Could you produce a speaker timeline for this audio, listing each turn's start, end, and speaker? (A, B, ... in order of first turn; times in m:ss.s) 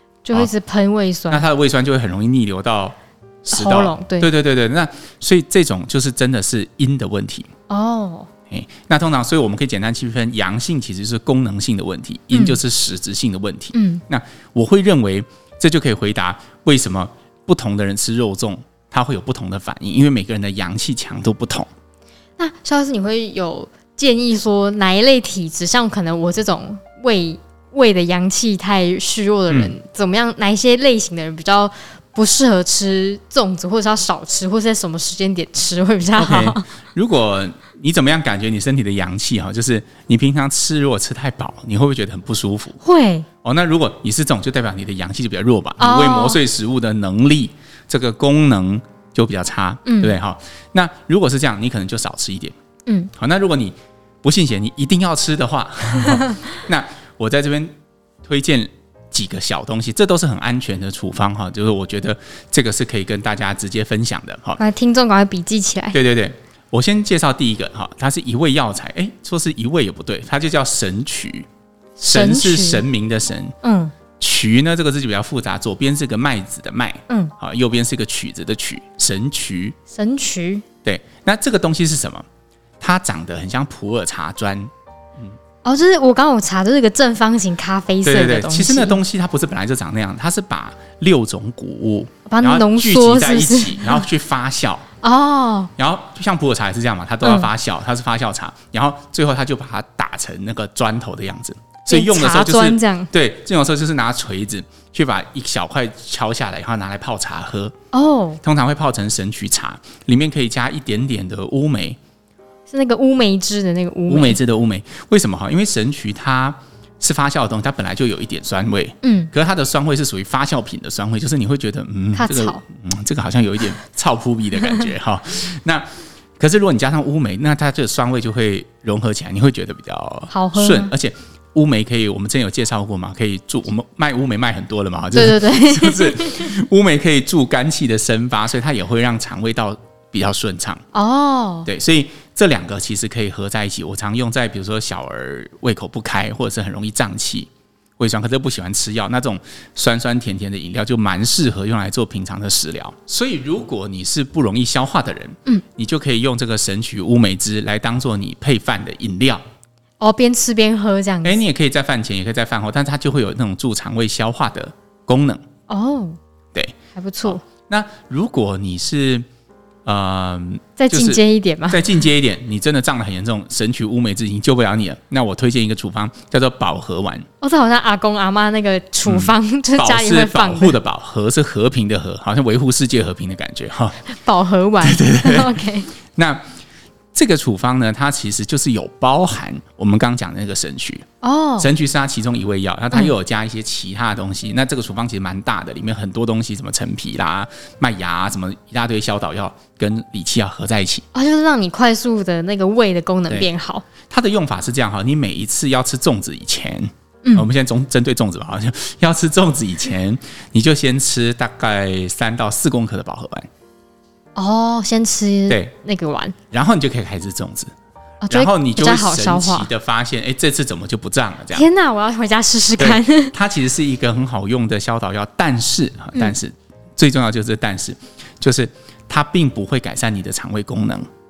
0:00.2-0:01.4 A
0:01.3-0:07.5 B
0:03.5-0:04.3 A
0:07.7-0:08.3 A
0:08.5-0:21.7 B
0:12.3-0:12.6 A
0:13.7-0:14.0 A
0:22.4-0:36.7 A
0:29.5-0:29.7 B
0:36.2-0:42.8 B
0:42.8-0:43.3 A
0:43.4-0:52.6 B
0:45.8-0:46.4 A
0:49.9-0:50.2 A
0:53.2-0:57.7 B
0:58.2-1:04.6 B
1:04.6-1:06.0 A
1:05.9-1:11.5 B
1:12.0-1:12.8 A
1:12.0-1:13.5 B
1:13.6-1:13.9 A
1:14.2-1:19.8 B
1:17.1-1:17.3 A
1:19.9-1:20.6 A
1:20.8-1:22.3 B
1:22.8-1:25.4 B
1:25.6-1:29.0 A
1:28.0-1:34.9 B
1:32.3-1:34.0 A
1:35.0-1:35.7 A
1:35.8-1:47.7 B
1:37.2-1:37.5 A
1:41.9-1:43.1 A
1:47.9-1:48.4 A
1:48.4-1:52.0 B
1:52.7-1:54.4 A
1:54.1-2:05.9 B
1:59.0-1:59.3 A
2:02.2-2:02.6 A
2:06.4-2:20.8 B
2:10.3-2:10.9 A
2:15.1-2:16.5 A
2:20.9-2:21.7 A
2:21.7-2:39.4 B
2:40.0-2:41.4 A
2:41.2-2:45.4 B
2:45.7-2:46.2 A
2:46.5-2:49.3 B
2:47.0-2:47.4 A
2:49.8-2:57.3 B
2:50.8-2:51.8 A
2:57.4-3:00.8 A
2:59.1-3:04.0 B
3:04.1-3:05.9 A
3:04.8-3:05.6 B
3:06.2-3:06.4 B
3:07.1-3:11.0 B
3:11.2-3:11.7 A
3:11.6-3:21.0 B
3:21.1-3:23.8 A
3:24.1-3:33.5 B
3:34.4-3:36.4 A
3:36.5-3:37.7 B
3:38.2-3:39.7 A
3:38.3-3:41.7 B
3:41.5-3:43.3 A
3:42.8-3:51.1 B